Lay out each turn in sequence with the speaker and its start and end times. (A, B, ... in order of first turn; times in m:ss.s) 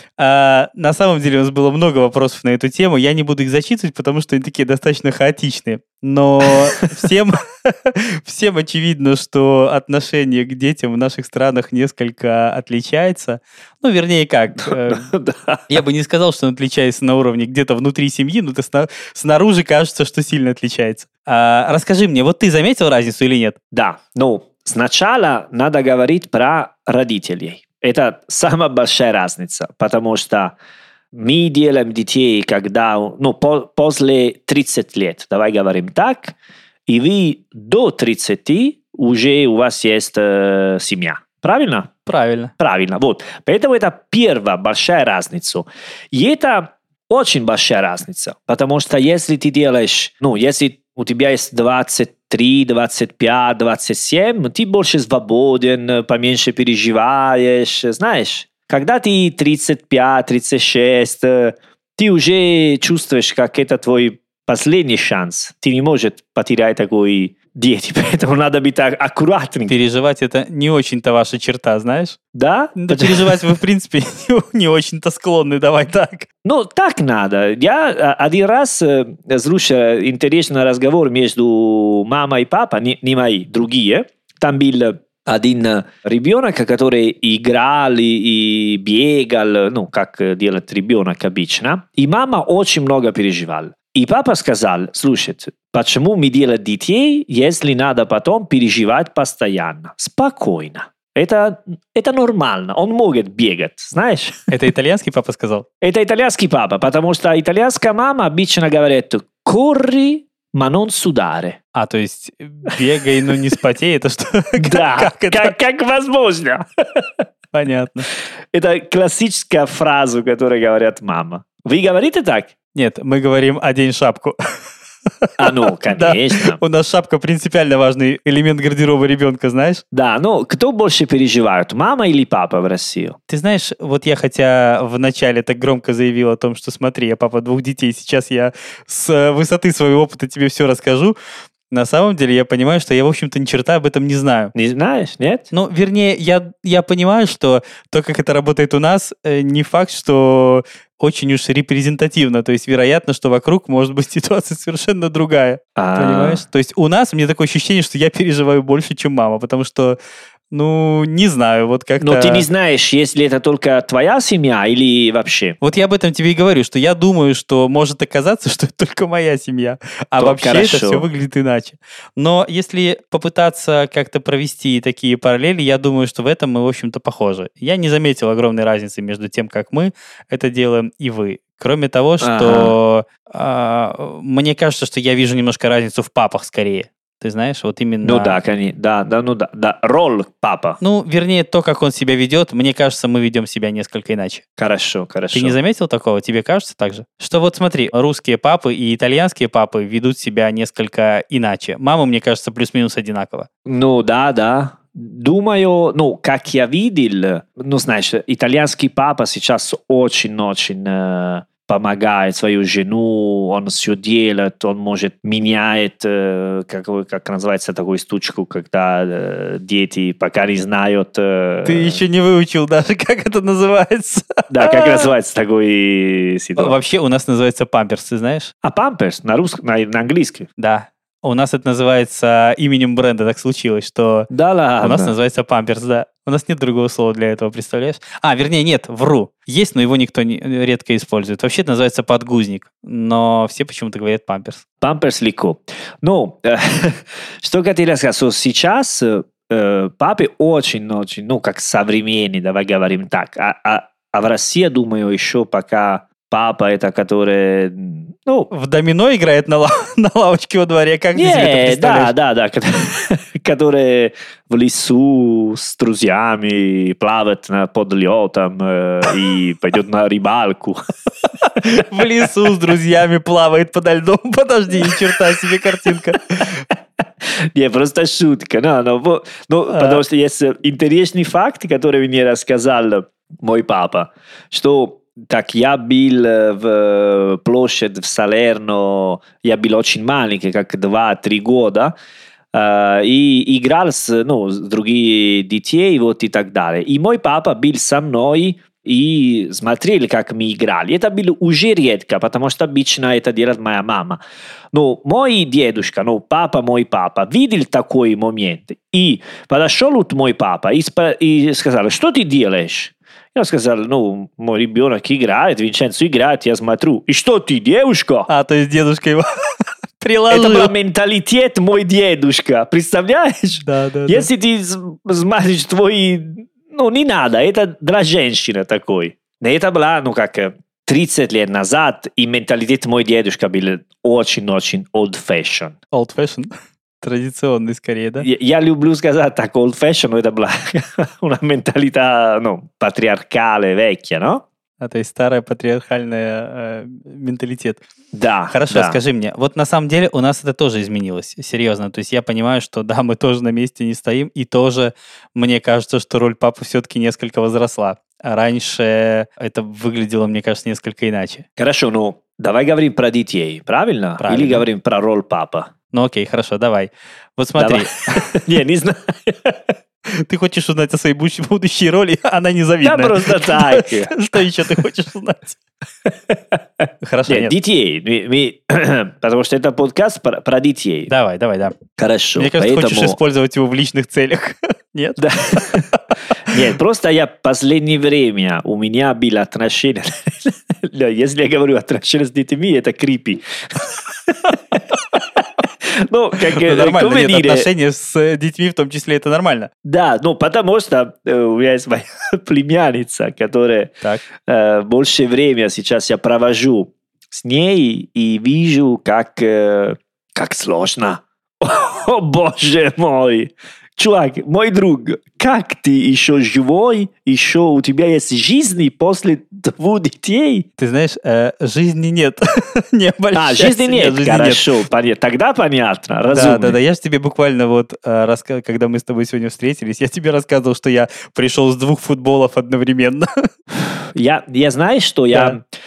0:00.2-0:15.0 A
0:14.7-0:15.8 B
0:15.7-0:23.6 A
0:23.7-0:30.6 B
0:31.1-0:36.4 B
0:36.9-0:41.9 B
0:42.1-0:42.5 A
0:42.6-1:09.8 B
1:09.7-1:12.2 A
1:12.3-1:13.5 B
1:12.8-1:16.3 A
1:16.4-1:44.5 B
1:44.5-1:45.7 A
1:45.8-1:51.6 B
1:51.7-1:55.6 A
1:54.6-1:57.1 B
1:57.5-1:58.1 A
1:58.5-2:02.5 B
2:02.8-2:04.4 A
2:05.2-2:09.8 A
2:05.4-2:06.6 B
2:09.9-2:13.2 B
2:13.3-2:21.2 A
2:21.7-2:24.5 A
2:24.5-2:25.5 B
2:25.5-2:40.0 A
2:35.8-2:36.4 B
2:40.5-2:42.5 A
2:42.0-2:45.6 B
2:45.6-3:08.4 A
2:50.2-2:51.1 B
3:02.2-3:02.8 B
3:08.0-3:10.8 B
3:10.8-3:14.4 A
3:14.6-3:15.6 B
3:15.3-3:23.5 A
3:23.6-3:42.0 B
3:41.6-3:45.1 A
3:44.5-3:46.8 B
3:46.6-3:48.5 A
3:48.6-3:50.5 B
3:50.6-3:54.3 A
3:54.3-3:55.1 B
3:54.8-4:04.6 A
4:04.8-4:18.5 B
4:18.5-4:22.1 A
4:21.2-4:30.8 B
4:31.4-4:36.6 A
4:37.5-4:52.0 B
4:39.7-4:40.0 A
4:52.5-5:04.2 B
5:04.7-5:18.3 B
5:18.3-5:20.7 A
5:20.3-5:35.8 B
5:23.6-5:24.3 A
5:35.9-5:36.5 A
5:37.0-5:38.3 A
5:38.2-5:44.5 B
5:44.8-5:47.8 A
5:48.1-5:49.0 B
5:48.5-6:01.4 A
6:01.6-6:05.7 B
6:04.2-6:04.6 A
6:05.9-6:08.4 A
6:07.6-6:09.6 B
6:10.1-6:15.6 A
6:12.8-6:14.2 B
6:16.1-6:21.1 B
6:17.0-6:17.5 A
6:21.1-6:21.8 A
6:22.0-6:23.2 B
6:22.4-6:26.6 A
6:25.2-6:25.9 B
6:26.4-6:37.7 B
6:36.5-6:39.7 A
6:39.8-6:43.9 B
6:44.4-7:00.7 B
7:00.8-7:04.8 A
7:03.3-7:06.8 B
7:06.3-7:13.3 A
7:14.2-7:15.6 B
7:15.3-7:15.6 A